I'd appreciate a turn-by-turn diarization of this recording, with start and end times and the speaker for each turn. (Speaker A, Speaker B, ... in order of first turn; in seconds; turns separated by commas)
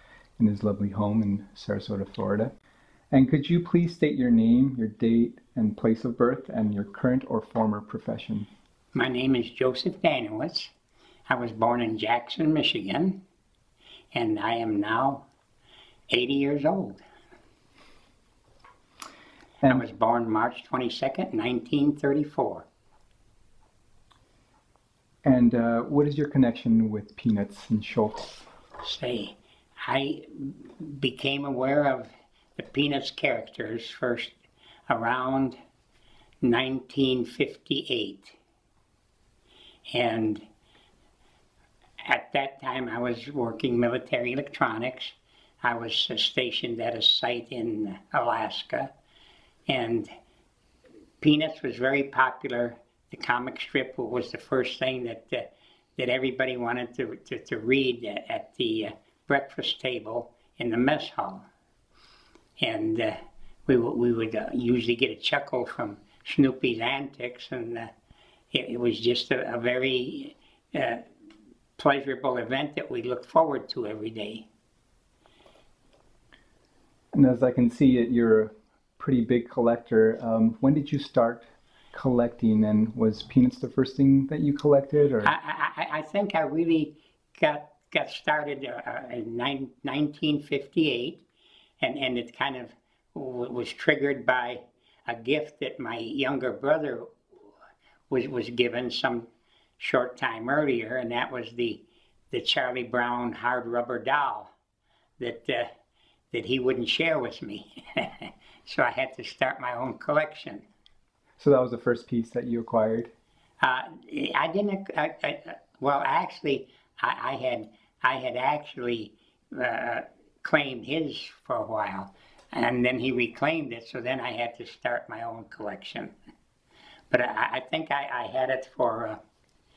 Speaker A: 0.4-2.5, Speaker A: 3.1-8.5, Speaker B: 8.9-10.7, Speaker B: 11.3-13.2, Speaker B: 14.1-15.2, Speaker B: 16.1-17.0, Speaker B: 19.7-22.7, Speaker A: 25.2-28.4, Speaker B: 28.8-34.3, Speaker B: 34.9-35.6, Speaker B: 36.4-38.4, Speaker B: 39.9-40.4, Speaker B: 42.0-48.9, Speaker B: 49.7-50.1, Speaker B: 51.2-61.5, Speaker B: 62.6-67.9, Speaker B: 68.5-71.0, Speaker B: 71.8-74.5, Speaker A: 77.1-85.3, Speaker B: 85.2-91.2, Speaker B: 91.8-97.1, Speaker B: 98.1-99.3, Speaker B: 99.8-104.5, Speaker B: 105.2-105.7, Speaker B: 106.3-110.7, Speaker A: 111.4-113.1, Speaker B: 113.6-126.1, Speaker B: 127.1-129.2